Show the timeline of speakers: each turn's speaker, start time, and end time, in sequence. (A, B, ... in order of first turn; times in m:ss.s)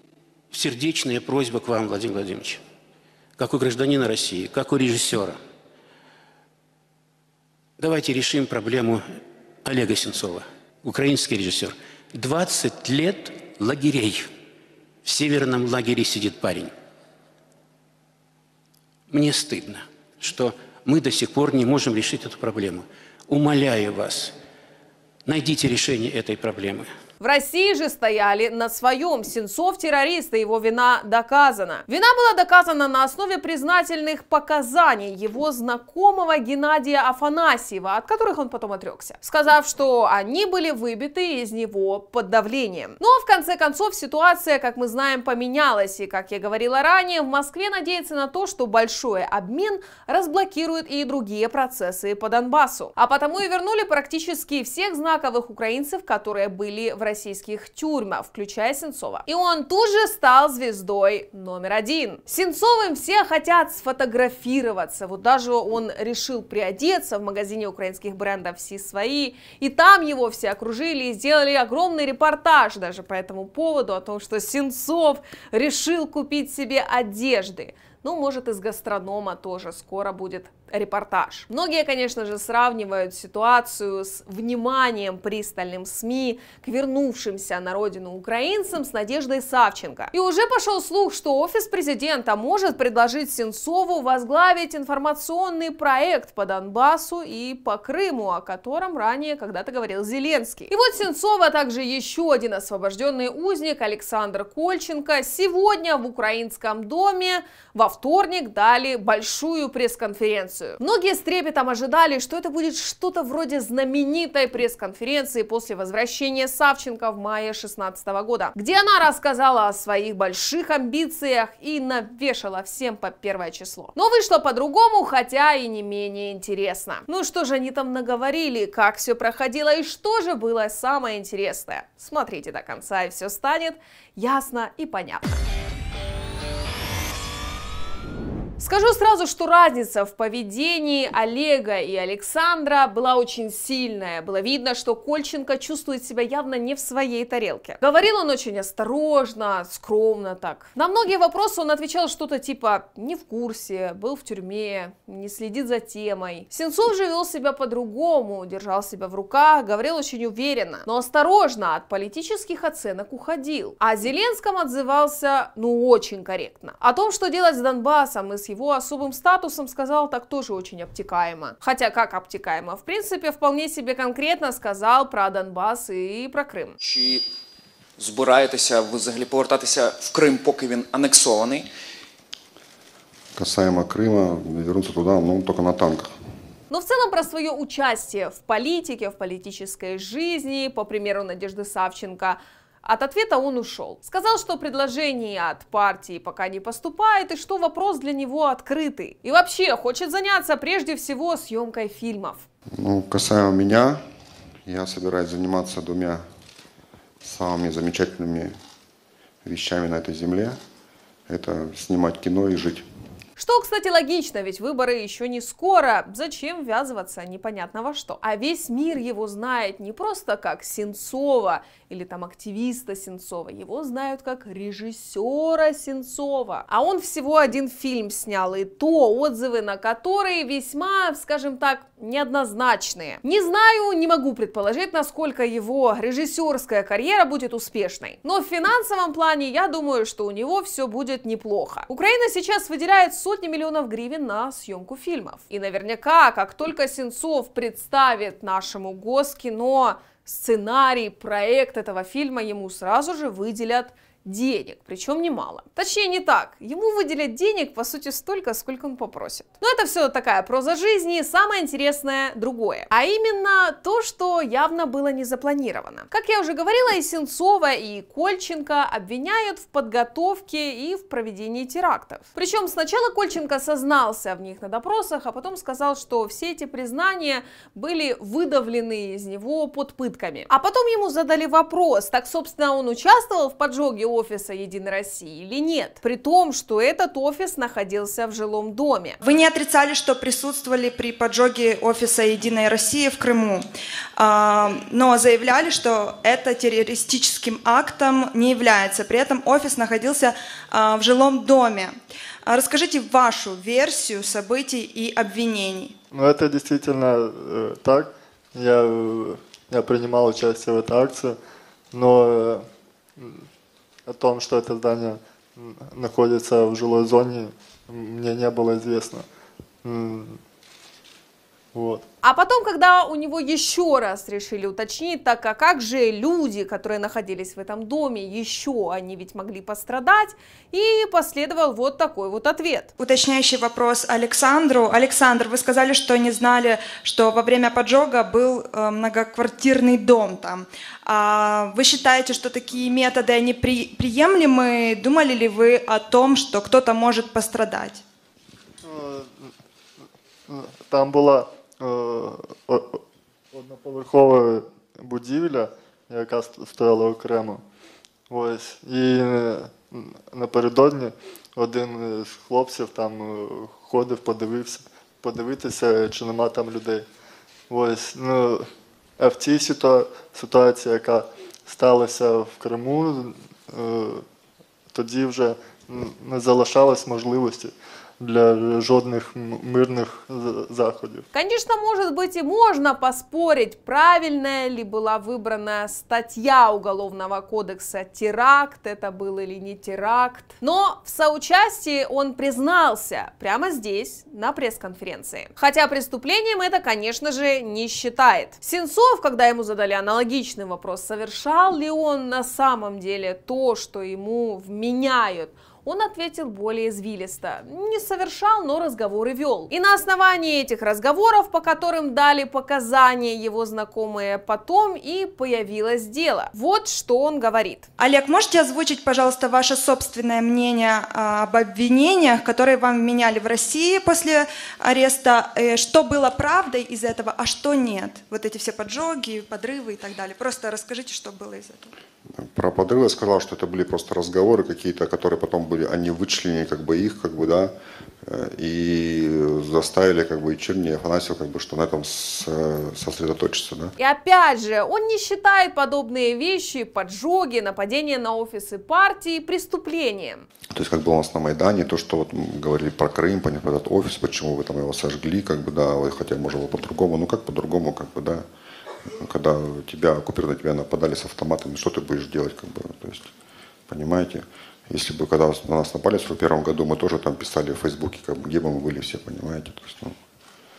0:00.5-0:02.6 A
0:03.4-0:05.4 A
0:07.8-0:09.0 A
0:09.6-0:14.3 A
0:15.0-0:16.7 A
0:19.1-0:24.3 A
0:25.2-0:26.9 A
0:27.2-2:15.4 B
2:18.6-2:56.8 B
2:56.8-2:57.3 C
2:58.0-3:01.7 C
3:03.4-3:06.1 D
3:06.7-3:22.4 B
3:22.7-3:24.0 D
3:24.6-3:26.2 D
3:27.2-3:28.5 D
3:29.4-3:30.6 D
3:31.3-3:32.8 D
3:33.4-4:49.2 B
4:49.2-4:53.6 E
4:54.2-5:01.9 E
5:02.4-5:05.9 E
5:06.1-5:11.4 F
5:11.9-5:12.6 F
5:13.2-5:13.4 F
5:14.0-5:19.2 F
5:19.8-5:20.4 F
5:21.7-5:22.0 F
5:22.2-5:32.9 B
5:33.0-5:48.0 E
5:48.8-5:49.5 F
5:50.5-5:53.0 F
5:53.5-5:57.6 F
5:58.3-6:07.0 F
6:07.7-6:08.7 F
6:09.2-6:14.2 F
6:14.9-6:21.2 F
6:21.3-6:57.9 B
6:58.0-7:11.9 E
7:12.3-7:23.9 D
7:24.0-7:30.4 B
7:30.7-7:38.4 D
7:39.0-7:43.3 D
7:43.9-7:50.2 D